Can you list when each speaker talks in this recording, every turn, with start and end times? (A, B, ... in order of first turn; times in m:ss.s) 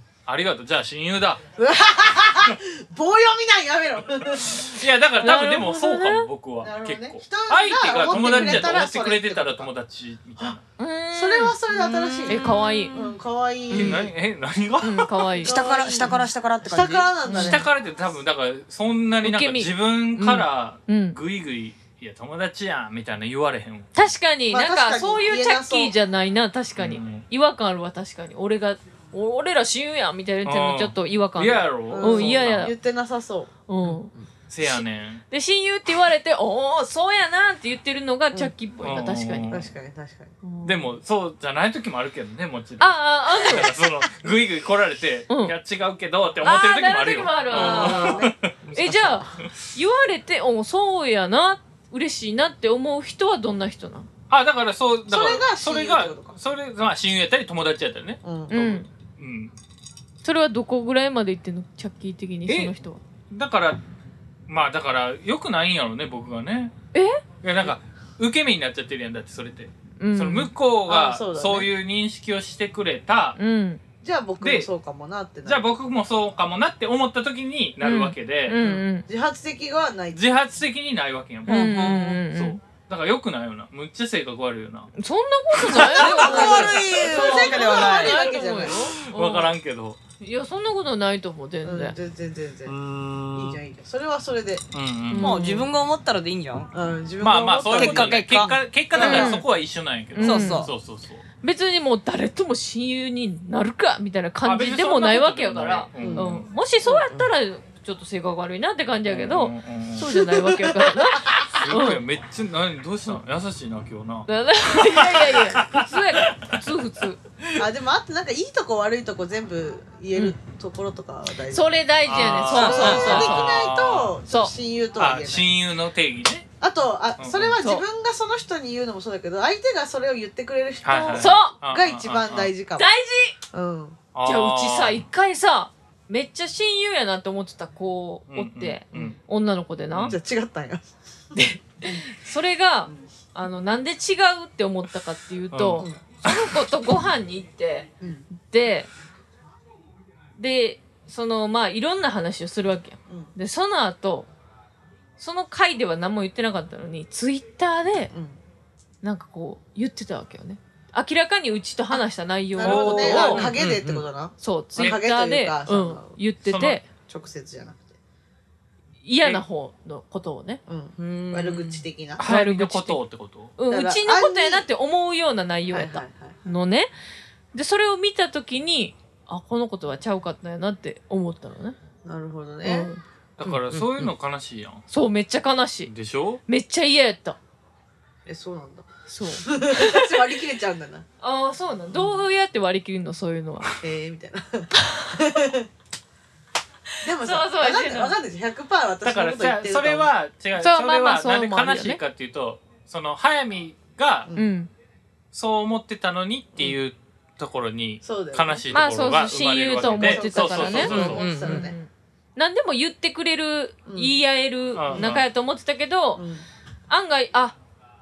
0:00.2-0:01.4 A
0:01.6-0:04.6 B
0:04.4-0:10.6 A
0:05.2-0:06.2 C
0:06.6-0:09.7 B
0:08.1-0:08.8 C
0:10.8-0:11.6 C
0:11.1-0:14.1 B
0:11.7-0:12.4 D
0:12.3-0:13.1 C
0:13.7-0:15.4 A
0:14.8-0:15.6 C
0:15.4-0:17.7 B
0:15.4-0:17.1 D
0:17.2-0:17.6 C
0:17.3-0:24.1 A
0:19.2-0:19.7 C
0:20.2-0:20.4 D
0:20.9-0:21.2 C
0:23.9-0:32.7 C
0:24.5-0:25.9 B
0:26.8-0:27.2 A
0:30.4-0:32.7 A
0:31.9-0:33.9 B
0:33.7-0:39.5 C
0:34.5-0:35.2 A
0:38.8-0:39.7 A
0:39.5-0:40.3 B
0:40.4-0:40.9 C
0:40.6-0:49.5 A
0:42.8-0:43.8 C
0:45.3-0:45.5 C
0:46.4-0:54.1 C
0:47.5-0:49.2 B
0:54.3-0:59.5 A
0:55.1-0:56.4 B
0:58.2-0:58.6 B
0:58.5-0:58.9 C
1:00.2-1:03.0 C
1:02.5-1:02.7 A
1:03.3-1:03.8 A
1:04.5-1:06.7 A
1:06.9-1:07.2 C
1:07.4-1:13.4 A
1:10.0-1:10.5 C
1:10.8-1:11.7 B
1:13.4-1:13.8 C
1:14.0-1:15.7 B
1:14.4-1:14.7 A
1:15.4-1:18.6 A
1:17.8-1:19.0 C
1:18.6-1:20.2 B
1:20.1-1:24.9 A
1:21.5-1:22.2 D
1:21.5-1:22.6 C
1:25.0-1:29.5 C
1:25.7-1:29.0 B
1:25.9-1:28.8 D
1:26.4-1:26.8 A
1:29.0-1:30.0 A
1:30.2-1:32.0 C
1:31.6-1:32.8 B
1:32.7-1:33.6 D
1:33.3-1:34.6 B
1:34.7-1:35.4 A
1:35.1-1:35.7 C
1:35.2-1:36.7 D
1:36.7-1:39.4 B
1:37.2-1:41.2 A
1:37.7-1:38.5 D
1:39.0-1:39.4 C
1:40.1-1:40.7 C
1:40.2-1:40.7 D
1:41.4-1:52.0 C
1:44.4-1:46.4 A
1:46.0-1:46.3 B
1:46.8-1:47.3 B
1:49.1-1:50.2 A
1:50.1-1:51.6 B
1:51.5-1:56.5 A
1:54.3-1:57.2 C
1:57.6-2:05.5 B
2:01.5-2:03.5 C
2:02.0-2:04.2 A
2:02.5-2:03.3 D
2:04.9-2:06.5 A
2:06.6-2:12.9 B
2:07.2-2:07.6 A
2:10.8-2:12.5 A
2:11.1-2:11.5 C
2:12.8-2:13.4 C
2:13.5-2:14.0 B
2:14.1-2:15.0 A
2:14.2-2:20.2 C
2:18.3-2:19.2 A
2:19.9-2:20.2 A
2:20.0-2:20.8 B
2:21.3-2:28.9 C
2:25.5-2:26.5 A
2:28.0-2:28.2 B
2:30.4-2:34.3 C
2:35.2-2:38.1 C
2:38.1-2:38.4 B
2:39.0-2:43.5 C
2:42.5-2:46.2 B
2:42.6-2:43.5 A
2:43.3-2:44.0 D
2:44.4-2:46.8 C
2:46.4-2:46.8 A
2:47.1-2:48.0 B
2:49.0-2:50.6 C
2:50.7-2:52.2 B
2:51.0-2:51.8 D
2:52.2-2:53.5 A
2:52.2-2:53.0 C
2:53.6-2:56.9 C
2:53.7-2:54.7 B
2:55.7-2:56.4 B
2:57.5-3:01.8 C
3:02.0-3:02.9 B
3:02.6-3:03.0 C
3:03.4-3:04.8 A
3:03.4-3:04.1 D
3:04.9-3:05.9 C
3:05.9-3:06.4 A
3:06.5-3:07.4 C
3:08.2-3:11.0 B
3:09.1-3:10.2 C
3:11.2-3:13.7 C
3:11.9-3:12.2 B
3:13.8-3:15.7 B
3:14.8-3:15.2 C
3:17.0-3:20.1 B
3:17.2-3:18.2 C
3:19.0-3:24.3 A
3:20.6-3:22.0 C
3:24.4-3:24.7 C
3:25.3-3:31.3 A
3:28.0-3:28.7 B
3:28.7-3:36.2 C
3:29.8-3:31.8 B
3:30.8-3:31.7 D
3:33.8-3:34.2 B
3:34.7-3:35.2 A
3:34.9-3:35.2 B
3:36.2-3:36.4 B
3:36.9-3:37.6 C